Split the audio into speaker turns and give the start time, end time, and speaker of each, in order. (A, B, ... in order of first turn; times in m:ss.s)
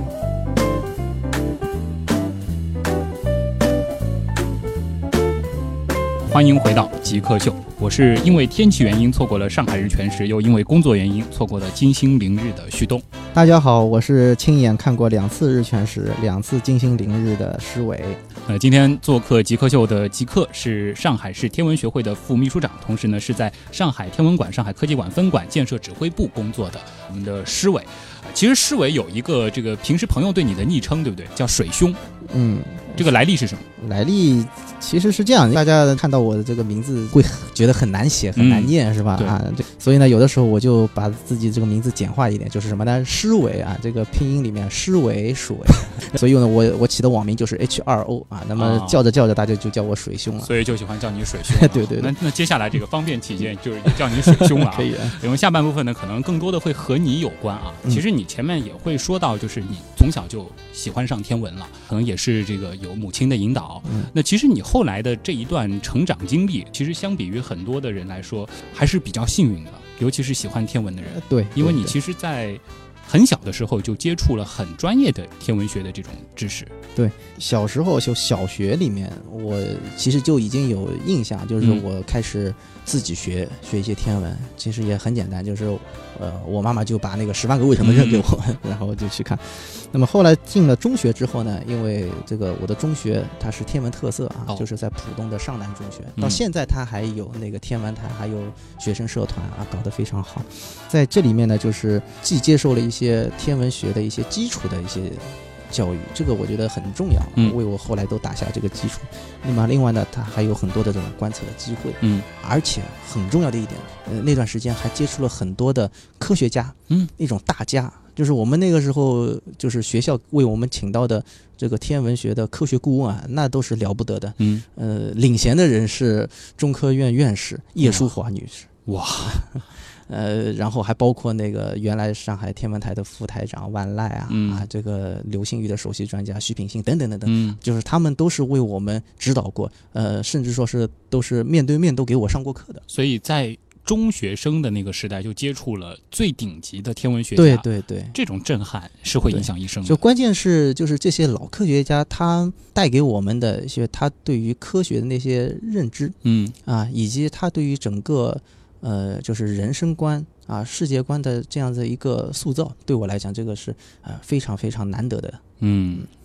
0:06.3-0:13.0 A
0:13.3-0:18.2 B
0:18.5-0:32.0 A
0:32.3-0:33.1 B
0:33.0-0:33.6 A
0:33.8-0:50.5 B
0:38.4-0:39.4 A
0:48.6-0:49.0 A
0:50.4-1:16.7 A
0:51.5-0:52.1 B
0:53.9-0:55.2 B
1:03.8-1:04.1 B
1:11.1-1:11.9 B
1:17.0-2:09.6 B
1:27.8-1:28.3 A
1:52.0-1:52.3 A
2:04.4-2:04.6 A
2:07.8-2:08.1 A
2:08.9-2:09.4 A
2:10.1-2:22.8 B
2:14.3-2:14.6 A
2:17.2-2:17.6 A
2:22.9-2:30.0 A
2:27.4-2:28.2 B
2:29.3-2:45.4 B
2:36.2-2:36.5 A
2:45.6-2:46.1 A